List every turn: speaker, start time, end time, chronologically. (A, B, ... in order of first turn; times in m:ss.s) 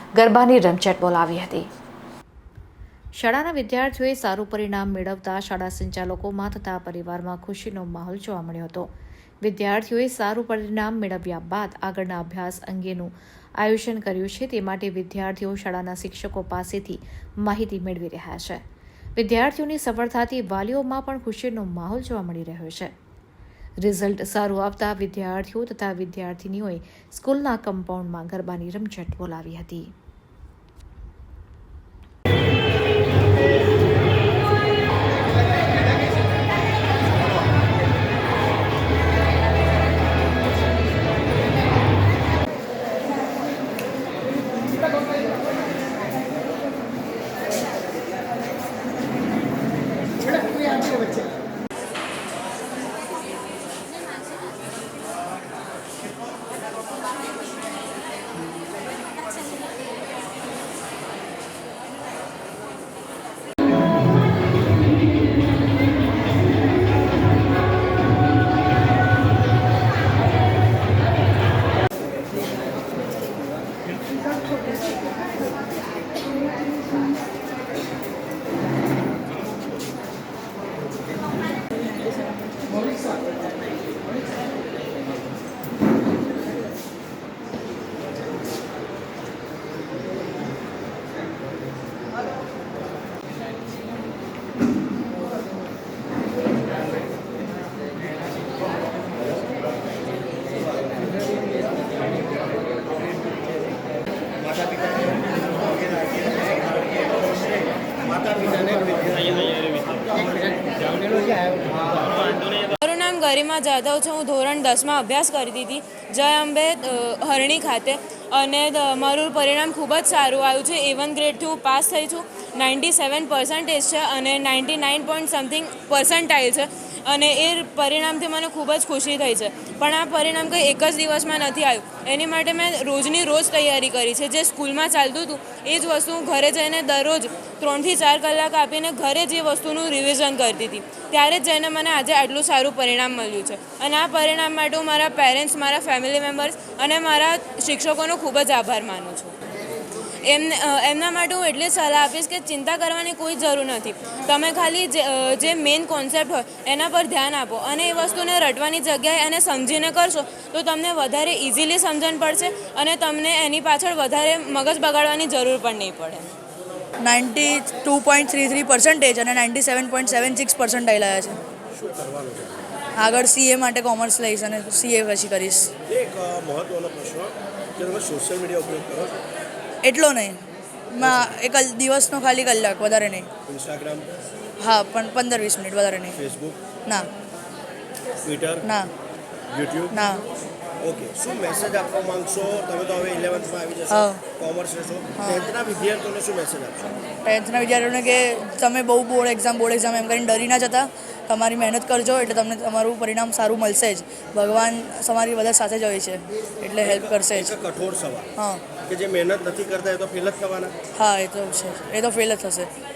0:00.2-0:01.7 A
0:03.2-0:08.9 A
0:09.4-0:18.6 A
0:19.2-0:22.9 A
0:23.8-0:29.9 A
1:52.8-2:29.3 B
2:30.2-2:46.3 B
2:47.0-2:51.4 C
2:51.7-2:52.6 D
2:53.0-2:55.7 C
2:55.9-2:59.2 D
2:59.8-3:00.4 C
3:00.9-3:03.3 C
3:03.5-3:04.1 D
3:04.6-3:06.2 C
3:06.2-3:06.6 D
3:08.2-3:08.6 D
3:08.6-3:08.9 C
3:09.5-3:09.9 D
3:09.9-3:10.2 C
3:10.8-3:16.8 D
3:13.9-3:14.2 C
3:17.2-3:27.6 C
3:26.9-3:28.3 D
3:28.4-3:28.6 C
3:28.9-3:30.7 D
3:31.0-3:32.7 C